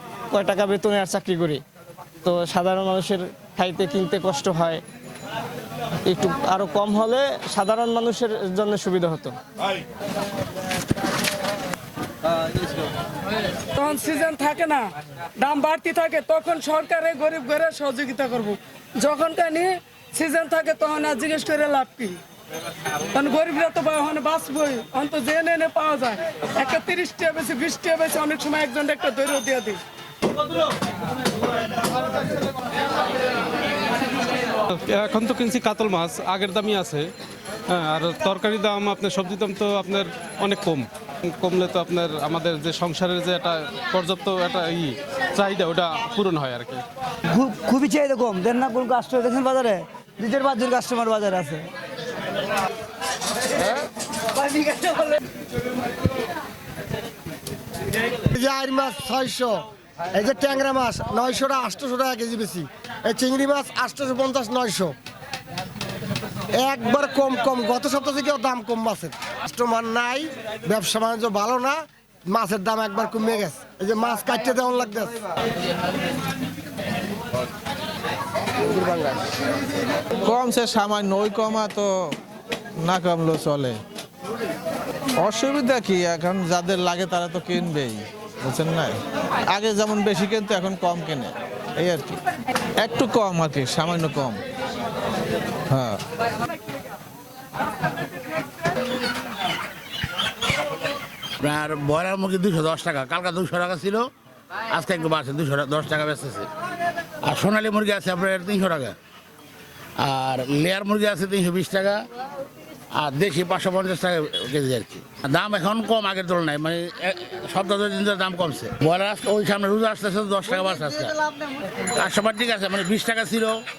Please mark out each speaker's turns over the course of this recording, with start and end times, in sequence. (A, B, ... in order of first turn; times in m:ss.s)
0:00.3-0:01.6 A
0:02.2-0:04.8 A
0:06.0-0:09.3 A
0:13.7-0:14.9 B
0:15.4-0:22.2 B
0:23.1-0:29.8 B
0:34.7-0:37.1 C
0:37.7-0:46.8 C
0:47.3-0:51.6 D
0:58.2-1:05.0 E
1:06.5-1:15.2 E
1:18.6-1:19.2 F
1:20.2-1:22.2 F
1:22.8-1:23.8 F
1:25.2-1:32.2 F
1:32.8-1:34.4 F
1:35.7-1:36.0 F
1:41.4-1:44.0 G
1:44.7-1:46.5 G
1:47.2-1:48.9 G
1:50.0-1:52.0 G
1:52.9-2:03.6 G